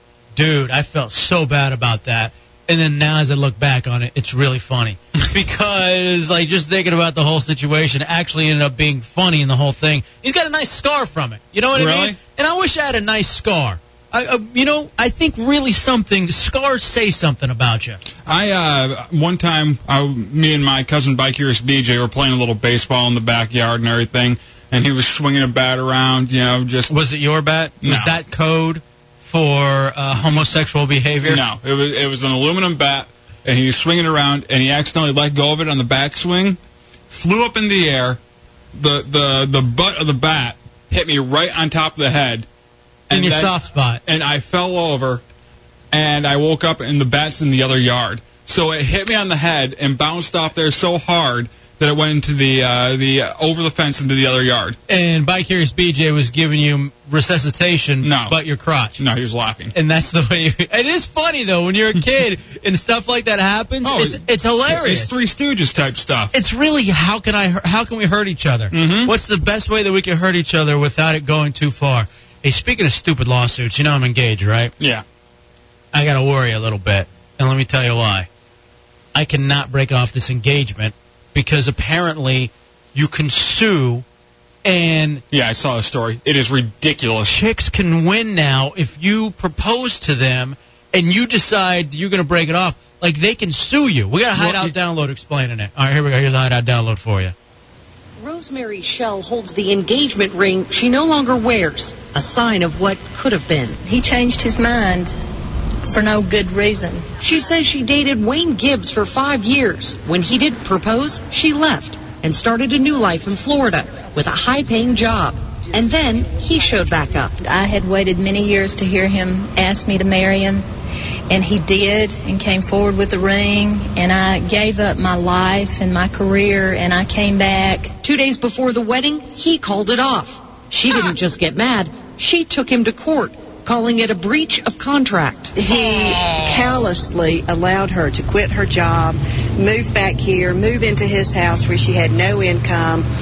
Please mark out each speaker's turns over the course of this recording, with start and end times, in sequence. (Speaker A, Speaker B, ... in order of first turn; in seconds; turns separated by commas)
Speaker A: 0.3-18.0, Speaker B: 11.7-12.2, Speaker B: 18.2-26.9, Speaker A: 26.9-31.4, Speaker B: 27.8-28.2, Speaker B: 31.2-36.6, Speaker B: 37.1-38.2, Speaker B: 38.7-42.5, Speaker B: 43.1-45.2, Speaker A: 43.1-44.0, Speaker B: 45.9-54.8, Speaker A: 54.9-59.0, Speaker B: 58.0-58.4, Speaker B: 59.0-59.7, Speaker A: 59.7-65.1, Speaker B: 63.8-66.3, Speaker A: 66.3-74.7, Speaker B: 68.7-69.1, Speaker A: 75.9-78.3, Speaker A: 79.1-84.0, Speaker A: 84.6-85.2, Speaker B: 85.3-87.4, Speaker A: 87.3-97.3, Speaker B: 94.3-94.7, Speaker C: 98.2-103.8, Speaker D: 103.8-105.1, Speaker D: 105.9-107.0, Speaker C: 107.2-117.4, Speaker D: 117.4-120.6, Speaker D: 121.3-127.9, Speaker C: 128.0-135.5, Speaker E: 135.5-143.1